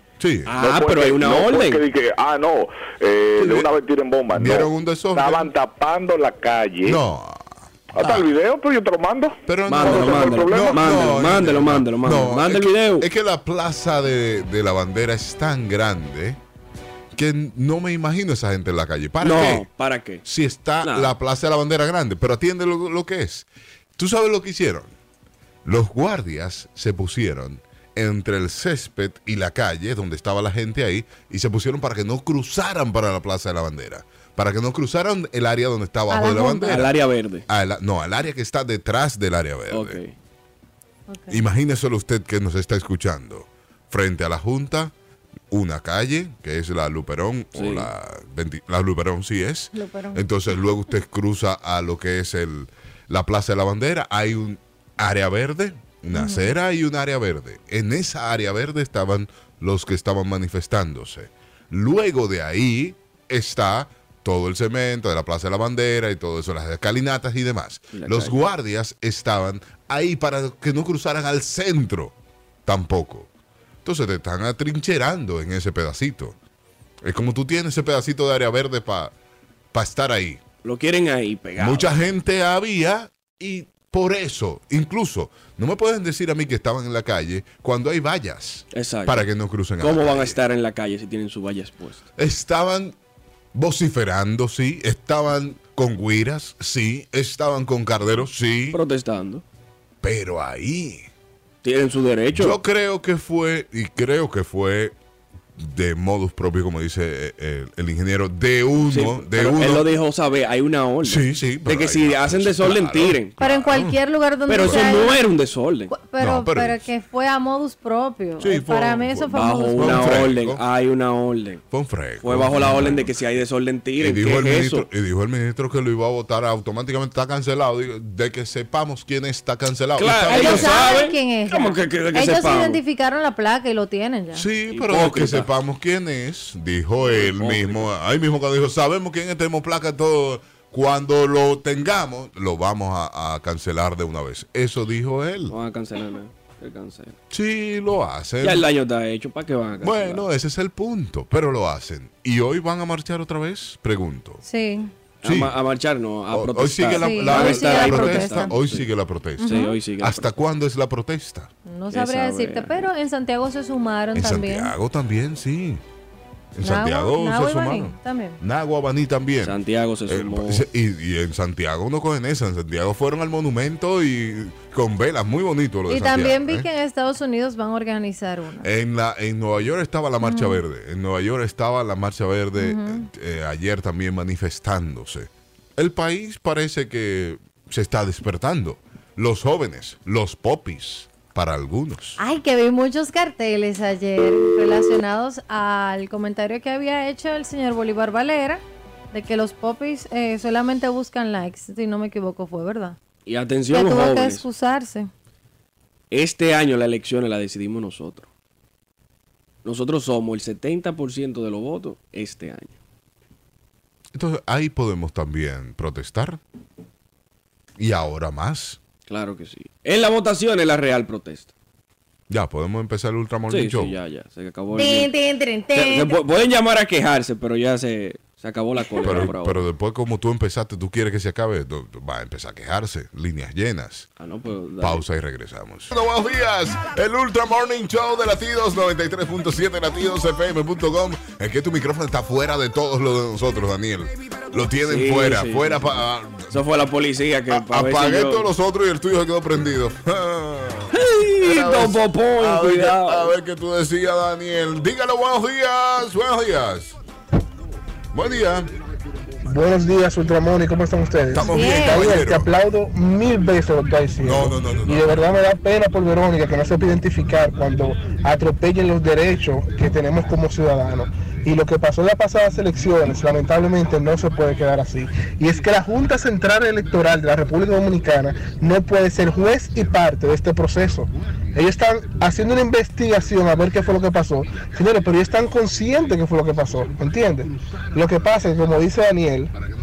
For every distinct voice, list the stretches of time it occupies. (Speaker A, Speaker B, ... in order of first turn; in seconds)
Speaker A: 0.2-0.5, 3.4-3.7, 4.3-5.5, 6.8-8.3, 9.5-16.4, 17.1-19.6, 20.2-24.9, 25.6-36.9, 37.5-40.0, 41.3-44.9, 45.5-72.1, 72.7-73.3, 73.8-76.3, 77.0-79.1, 79.7-80.4, 81.6-90.4, 92.2-92.9, 93.5-98.8, 100.0-101.1, 102.3-104.9, 105.6-109.9, 111.0-114.0, 114.6-114.9, 116.2-116.9, 118.4-120.6, 121.7-123.1, 124.0-130.9, 134.3-145.5, 147.3-148.6, 149.8-154.4, 155.2-155.5, 156.3-161.5, 164.1-165.8, 166.5-169.6, 170.1-176.7, 178.6-192.2, 214.1-216.4, 217.8-218.8, 222.3-223.9, 229.0-234.1, 234.8-246.5, 247.5-256.9, 258.1-258.7, 261.3-262.5, 264.2-265.2
Speaker B: 0.5-1.8, 9.7-13.1, 19.2-20.2, 20.8-21.1, 36.7-37.4, 39.7-40.1, 47.5-47.9, 67.9-68.4, 80.6-82.0, 88.7-89.3, 89.8-92.0, 98.7-99.4, 101.6-102.6, 108.9-113.4, 114.5-115.9, 119.3-121.6, 122.2-124.9, 130.0-132.8, 134.7-135.5, 137.0-137.9, 145.5-147.2, 148.4-150.2, 155.2-158.9, 159.4-160.3, 161.9-162.9, 169.4-170.6, 203.2-204.4, 206.1-208.3, 209.6-212.8, 219.1-221.5, 223.5-225.1, 225.7-229.6, 234.2-235.0, 244.9-245.9, 246.5-248.5, 250.9-253.3
Speaker C: 0.6-7.0, 8.0-11.0
Speaker D: 36.1-36.8, 41.1-41.4, 49.7-50.2, 56.1-56.5, 113.4-115.2, 115.9-120.3, 130.3-134.4, 154.4-154.9, 157.0-158.5, 159.4-159.8, 161.7-164.7, 166.6-168.4, 175.9-178.7, 180.2-180.6, 182.6-183.1, 192.2-203.0, 203.7-205.1, 224.7-226.2, 261.4-262.1
Speaker E: 259.4-289.5